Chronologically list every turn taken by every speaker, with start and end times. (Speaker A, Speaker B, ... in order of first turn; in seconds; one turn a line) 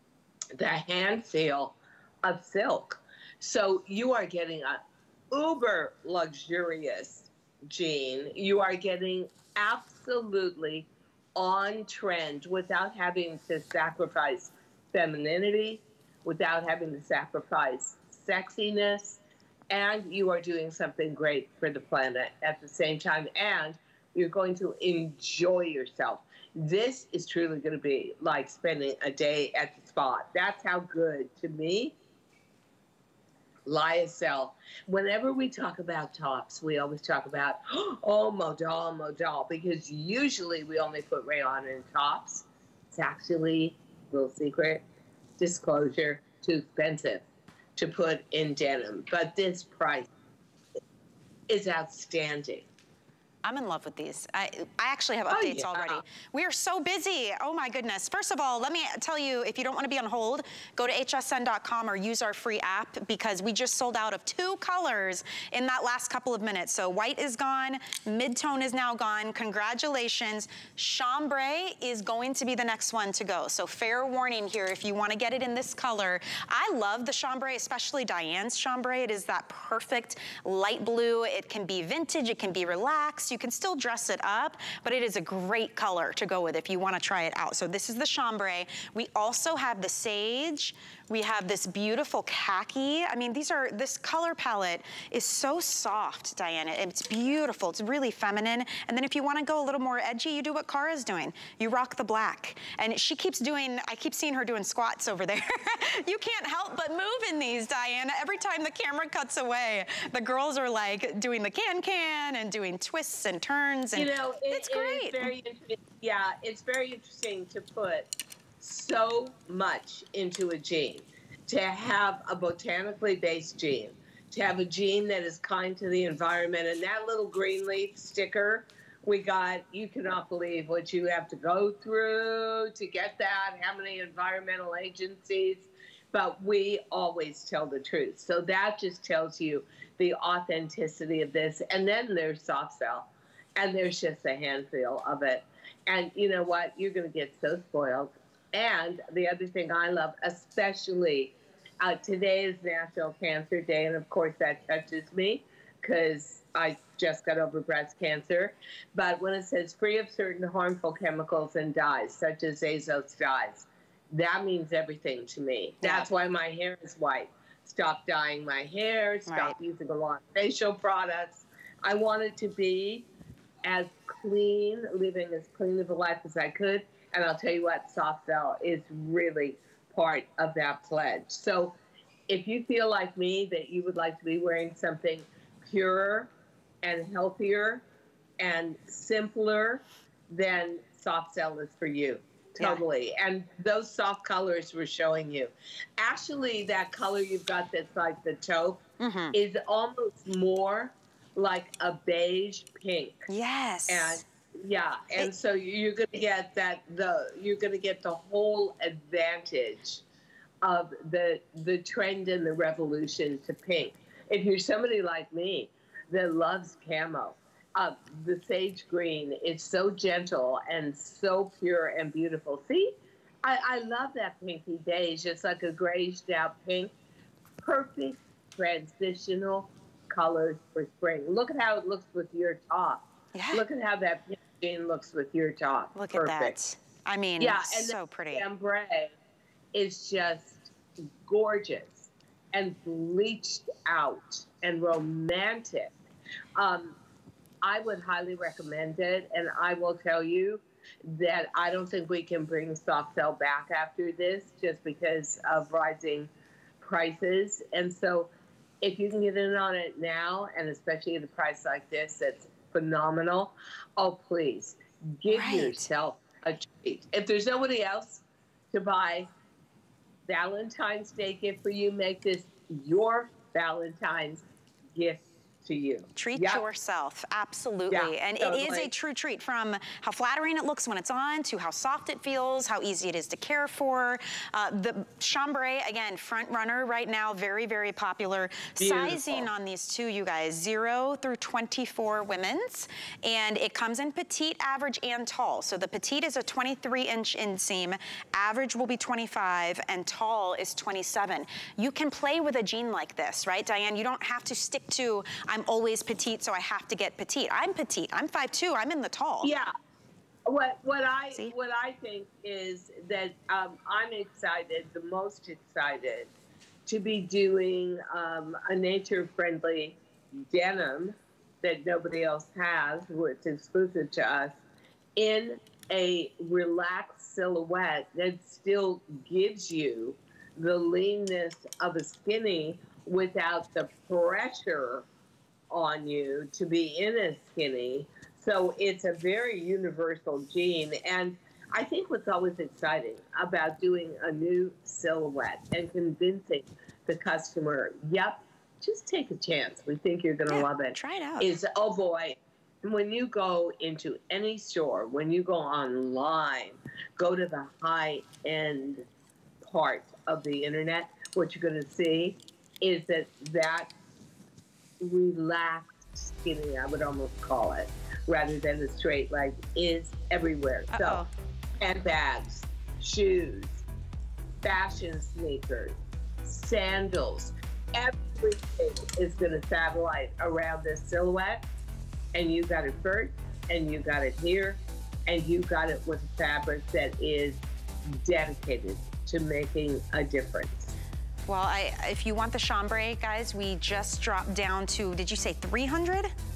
Speaker A: 0.6-19.2
Speaker A: 19.7-32.0
Speaker A: 33.6-44.8
Speaker A: 45.4-47.2
Speaker A: 47.8-50.1
Speaker A: 51.5-52.7
Speaker B: 53.4-115.3
Speaker A: 55.3-56.0
Speaker A: 113.9-173.1
Speaker B: 165.8-166.1
Speaker B: 169.3-169.6
Speaker A: 173.6-181.8
Speaker A: 182.3-186.3
Speaker A: 186.8-187.8
Speaker A: 188.4-203.3
Speaker B: 199.0-199.3
Speaker B: 203.3-204.2
Speaker A: 203.9-210.0
Speaker A: 210.6-226.9
Speaker A: 227.6-236.6
Speaker B: 233.3-233.6
Speaker B: 235.9-238.4
Speaker A: 237.4-239.2
Speaker A: 239.7-240.7
Speaker A: 241.2-246.0
Speaker A: 246.6-247.0
Speaker A: 247.6-256.3
Speaker A: 256.8-269.3
Speaker B: 265.3-265.9
Speaker A: 270.3-276.6
Speaker B: 276.1-309.5
Speaker A: 277.9-278.9
Speaker A: 288.8-289.5
Speaker A: 309.4-309.7
Speaker A: 310.5-316.3
Speaker A: 316.9-324.6
Speaker A: 325.1-335.1
Speaker A: 335.7-359.1
Speaker B: 350.5-351.5
Speaker A: 359.6-363.9
Speaker A: 365.0-371.2
Speaker B: 370.9-371.3
Speaker A: 371.8-373.8
Speaker A: 374.6-381.6
Speaker A: 382.3-390.9
Speaker B: 391.5-396.3